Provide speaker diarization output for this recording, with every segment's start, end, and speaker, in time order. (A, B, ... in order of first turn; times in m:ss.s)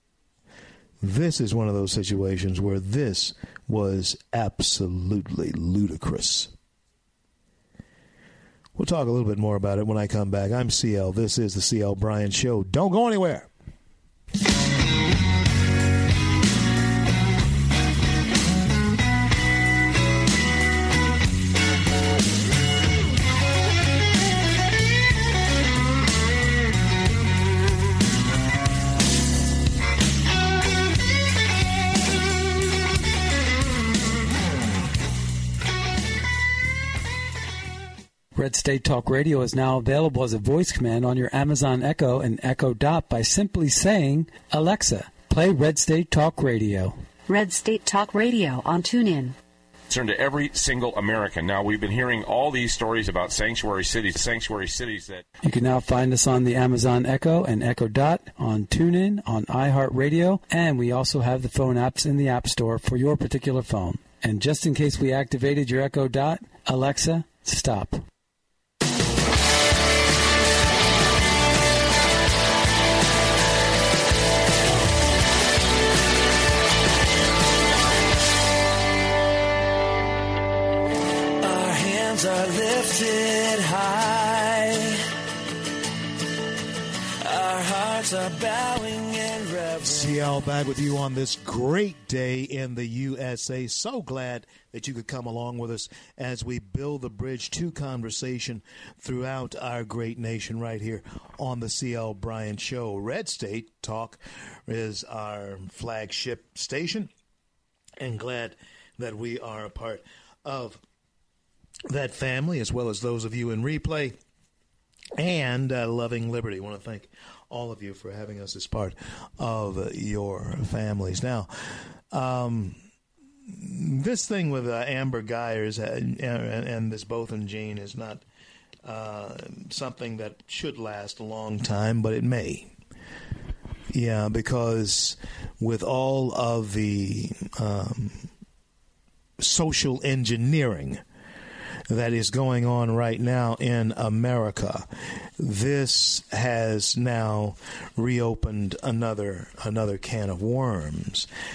0:01.0-0:06.5 A
0:08.8-0:13.5 A
0:38.4-0:47.0 B
0:47.3-0:49.4 C
0:49.9-0:55.2 D
0:55.4-1:08.0 B
1:21.4-1:25.0 E
1:27.2-1:30.2 E
1:29.8-1:47.1 A
1:48.0-1:50.8 A
1:51.9-1:54.2 A
1:55.2-2:01.5 A
2:02.1-2:02.8 A
2:03.5-2:08.2 A
2:08.8-2:12.7 A
2:13.9-2:18.3 A
2:19.4-2:21.0 A
2:21.9-2:31.3 A